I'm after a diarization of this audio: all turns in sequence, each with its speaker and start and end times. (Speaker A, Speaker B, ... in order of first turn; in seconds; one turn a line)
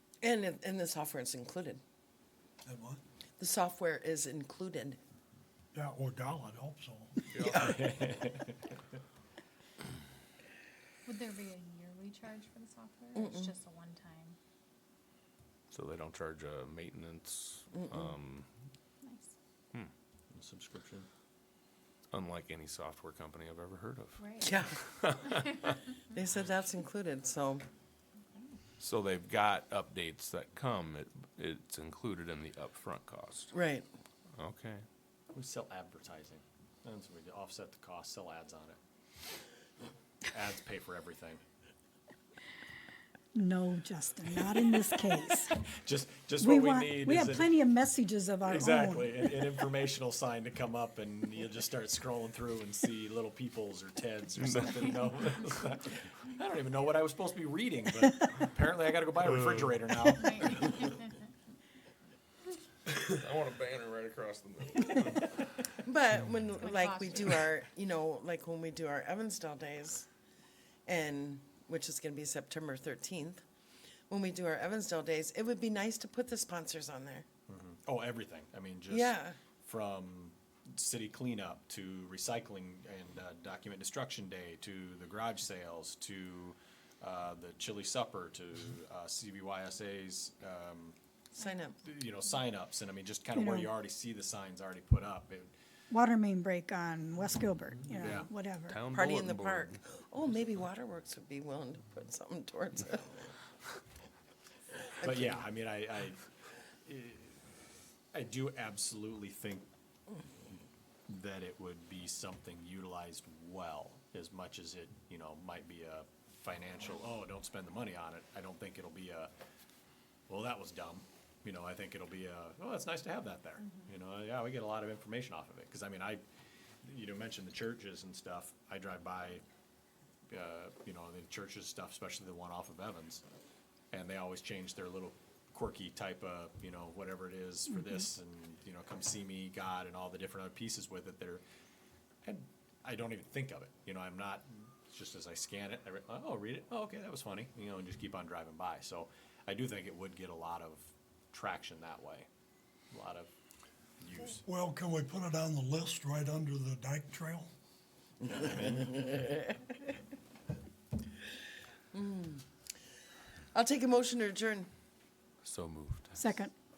Speaker A: 0.2-1.8
Speaker B: 2.6-3.0
Speaker A: 3.4-5.0
Speaker B: 5.7-7.3
Speaker C: 7.3-7.7
Speaker A: 7.4-7.8
Speaker D: 7.6-8.8
Speaker E: 11.1-14.4
Speaker A: 13.1-13.5
Speaker C: 15.7-18.5
Speaker A: 17.7-18.1
Speaker E: 19.0-19.3
Speaker D: 20.3-21.1
Speaker C: 22.1-25.8
Speaker E: 24.2-24.6
Speaker A: 24.4-24.8
Speaker E: 25.4-25.7
Speaker A: 26.1-27.6
Speaker E: 28.3-28.6
Speaker C: 28.8-33.5
Speaker A: 33.5-33.9
Speaker C: 34.4-34.8
Speaker D: 35.3-38.8
Speaker D: 40.3-41.4
Speaker F: 43.3-45.6
Speaker D: 45.6-47.5
Speaker F: 46.4-49.4
Speaker D: 48.5-60.9
Speaker C: 54.4-54.8
Speaker E: 60.2-61.2
Speaker C: 62.9-65.3
Speaker A: 65.8-70.1
Speaker E: 66.5-67.5
Speaker A: 70.9-73.4
Speaker A: 74.1-77.2
Speaker D: 77.5-91.0
Speaker A: 78.9-79.4
Speaker A: 91.3-91.8
Speaker E: 91.4-91.7
Speaker D: 91.8-95.5
Speaker F: 93.3-93.7
Speaker F: 95.9-98.8
Speaker D: 98.0-98.3
Speaker C: 98.7-99.8
Speaker A: 98.9-103.3
Speaker A: 105.0-105.4
Speaker D: 105.0-106.3
Speaker D: 106.8-107.4
Speaker D: 108.1-109.7
Speaker D: 111.1-119.3
Speaker D: 120.3-126.2
Speaker D: 126.8-129.4
Speaker D: 130.3-133.2
Speaker D: 133.9-141.4
Speaker D: 142.2-152.3
Speaker D: 152.9-153.3
Speaker D: 154.0-154.4
Speaker B: 154.4-157.5
Speaker D: 158.2-159.3
Speaker A: 161.9-162.4
Speaker A: 163.5-164.7
Speaker C: 165.4-166.2
Speaker F: 166.2-166.5